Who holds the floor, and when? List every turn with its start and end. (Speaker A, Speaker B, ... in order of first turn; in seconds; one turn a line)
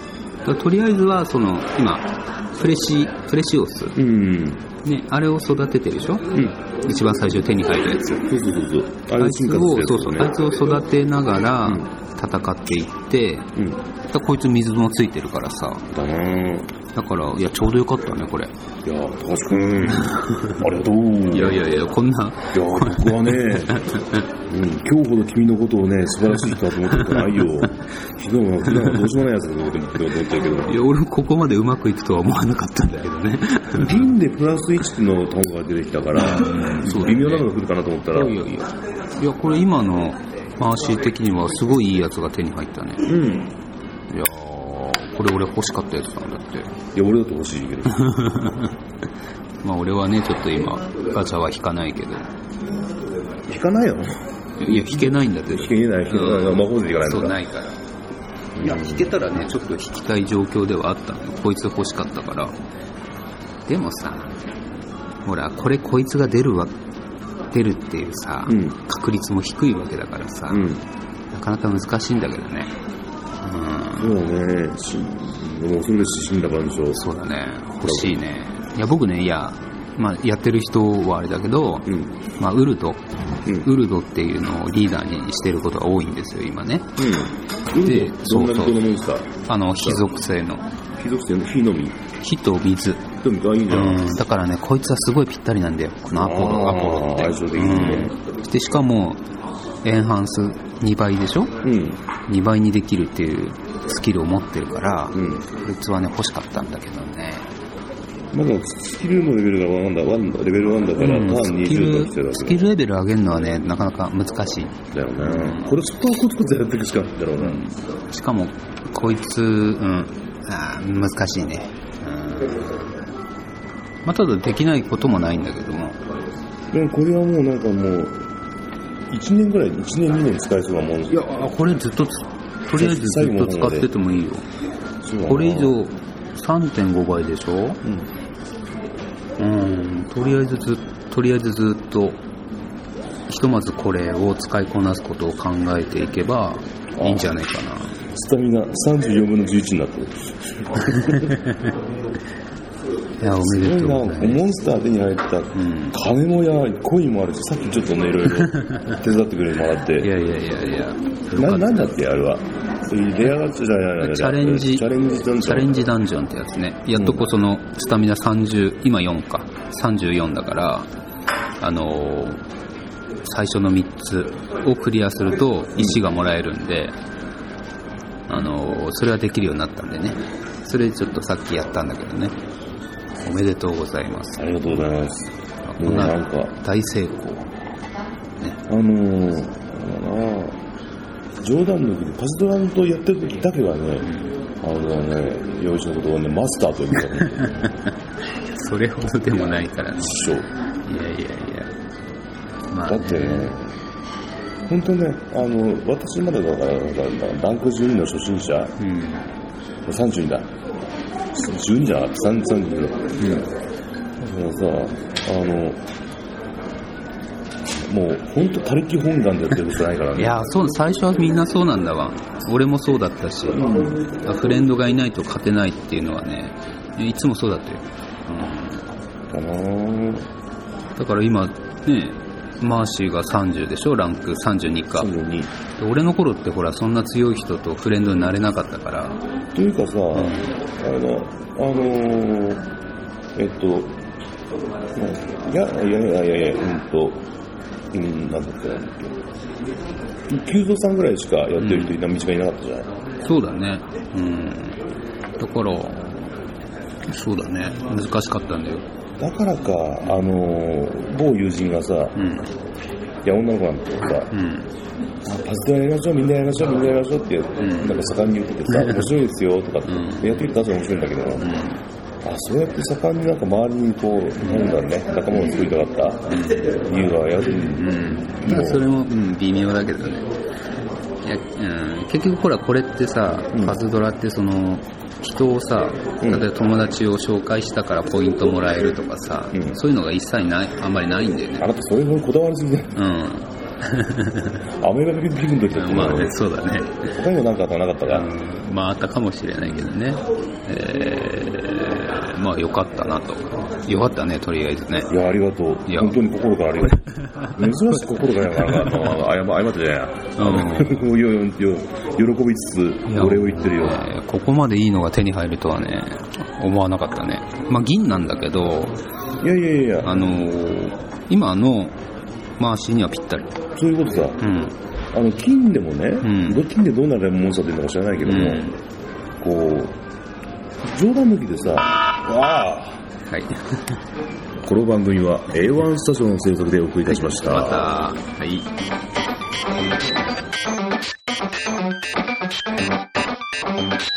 Speaker A: 0.5-4.0
Speaker B: 4.0-4.6
Speaker A: 4.8-6.3
Speaker A: 6.8-8.3
Speaker B: 8.2-10.4
Speaker A: 9.2-13.5
Speaker B: 11.6-11.9
Speaker A: 14.1-15.9
Speaker B: 15.9-16.7
Speaker A: 16.9-18.5
Speaker B: 18.9-21.8
Speaker A: 19.9-20.7
Speaker A: 21.3-24.3
Speaker B: 22.5-23.8
Speaker B: 24.5-30.8
Speaker A: 26.5-27.6
Speaker A: 28.6-29.1
Speaker A: 30.7-34.1
Speaker B: 33.7-38.4
Speaker A: 36.1-37.5
Speaker A: 38.1-43.1
Speaker B: 43.0-43.5
Speaker A: 44.1-46.7
Speaker B: 46.9-48.1
Speaker A: 47.9-48.8
Speaker A: 49.6-52.3
Speaker B: 53.5-57.4
Speaker A: 54.6-57.8
Speaker B: 58.5-59.1
Speaker A: 58.6-62.5
Speaker A: 63.7-64.4
Speaker A: 65.2-66.7
Speaker A: 67.5-70.7
Speaker B: 68.5-68.8
Speaker B: 70.5-70.8
Speaker A: 71.3-72.7
Speaker A: 73.4-74.2
Speaker B: 74.0-77.0
Speaker A: 76.9-83.0
Speaker B: 77.8-78.2
Speaker B: 81.9-82.1
Speaker B: 83.5-83.7
Speaker A: 83.6-86.9
Speaker B: 87.0-89.3
Speaker A: 87.8-88.8
Speaker A: 89.5-90.6
Speaker B: 89.8-90.0
Speaker B: 91.0-92.0
Speaker A: 92.2-93.1
Speaker B: 93.2-94.2
Speaker A: 93.7-99.2
Speaker B: 96.1-98.1
Speaker A: 99.8-101.5
Speaker B: 101.6-102.0
Speaker A: 102.3-107.5
Speaker B: 105.1-105.4
Speaker B: 108.3-112.8
Speaker A: 111.0-115.8
Speaker B: 114.9-117.6
Speaker A: 117.4-122.9
Speaker A: 124.0-126.0
Speaker B: 126.7-128.2
Speaker B: 129.1-131.2
Speaker A: 131.1-134.4
Speaker B: 132.7-133.9
Speaker B: 135.0-135.8
Speaker A: 135.3-137.8
Speaker A: 139.4-142.2
Speaker A: 143.3-148.0
Speaker B: 147.0-147.4
Speaker B: 148.1-151.4
Speaker A: 150.8-151.7
Speaker A: 153.2-154.5
Speaker B: 153.4-160.1
Speaker A: 155.5-156.0
Speaker A: 158.5-159.0
Speaker A: 160.0-162.0
Speaker B: 161.3-165.8
Speaker A: 164.0-170.9
Speaker B: 166.9-167.3
Speaker A: 171.6-172.4
Speaker A: 173.2-177.0
Speaker B: 175.8-176.0
Speaker A: 178.3-182.3
Speaker A: 183.2-184.6
Speaker B: 184.4-186.5
Speaker A: 185.7-187.5
Speaker B: 188.7-190.6
Speaker B: 191.4-197.7
Speaker A: 194.0-194.4
Speaker A: 197.2-197.9
Speaker A: 198.4-200.3
Speaker B: 200.0-200.5
Speaker A: 200.8-201.7
Speaker A: 202.7-203.6
Speaker B: 202.8-203.7
Speaker B: 204.7-208.8
Speaker A: 208.8-209.3
Speaker B: 209.8-210.5
Speaker B: 211.3-213.5
Speaker B: 214.2-215.8
Speaker B: 217.8-220.4
Speaker A: 220.2-228.8
Speaker B: 223.5-224.2
Speaker B: 229.3-230.2
Speaker A: 231.0-235.1
Speaker B: 234.9-235.5
Speaker A: 235.8-239.2
Speaker B: 239.5-242.7
Speaker A: 240.1-240.5
Speaker B: 243.3-244.0
Speaker B: 244.9-247.2
Speaker B: 247.9-249.2
Speaker B: 250.3-252.9
Speaker A: 251.6-252.0
Speaker A: 253.2-254.8
Speaker A: 255.4-256.0
Speaker A: 257.1-258.8
Speaker B: 259.2-262.2
Speaker A: 262.1-262.5
Speaker B: 263.2-264.3
Speaker A: 264.3-264.7
Speaker B: 265.2-271.5
Speaker A: 267.6-268.1
Speaker A: 268.7-269.1
Speaker A: 269.8-270.5
Speaker A: 271.4-271.8
Speaker B: 272.2-278.9
Speaker A: 274.4-274.8
Speaker A: 276.3-276.8
Speaker A: 277.5-280.3
Speaker A: 281.2-291.7
Speaker B: 283.5-283.8
Speaker B: 286.2-286.5
Speaker B: 289.5-289.8
Speaker B: 291.6-292.9
Speaker A: 292.9-294.7
Speaker B: 294.8-296.4
Speaker A: 295.7-297.2
Speaker B: 297.1-298.3
Speaker A: 298.1-305.1
Speaker B: 299.6-299.9
Speaker B: 305.1-314.1
Speaker A: 305.9-306.2
Speaker A: 306.9-309.2
Speaker A: 310.4-311.1
Speaker A: 313.1-319.0
Speaker B: 319.4-320.4
Speaker A: 320.0-322.0
Speaker A: 322.6-323.6
Speaker B: 323.8-324.4
Speaker A: 324.4-324.8
Speaker B: 325.1-328.7
Speaker A: 326.2-326.7
Speaker A: 328.2-328.8
Speaker B: 329.4-330.0
Speaker B: 330.9-333.0
Speaker A: 333.3-334.0
Speaker B: 334.6-337.9
Speaker A: 337.1-338.7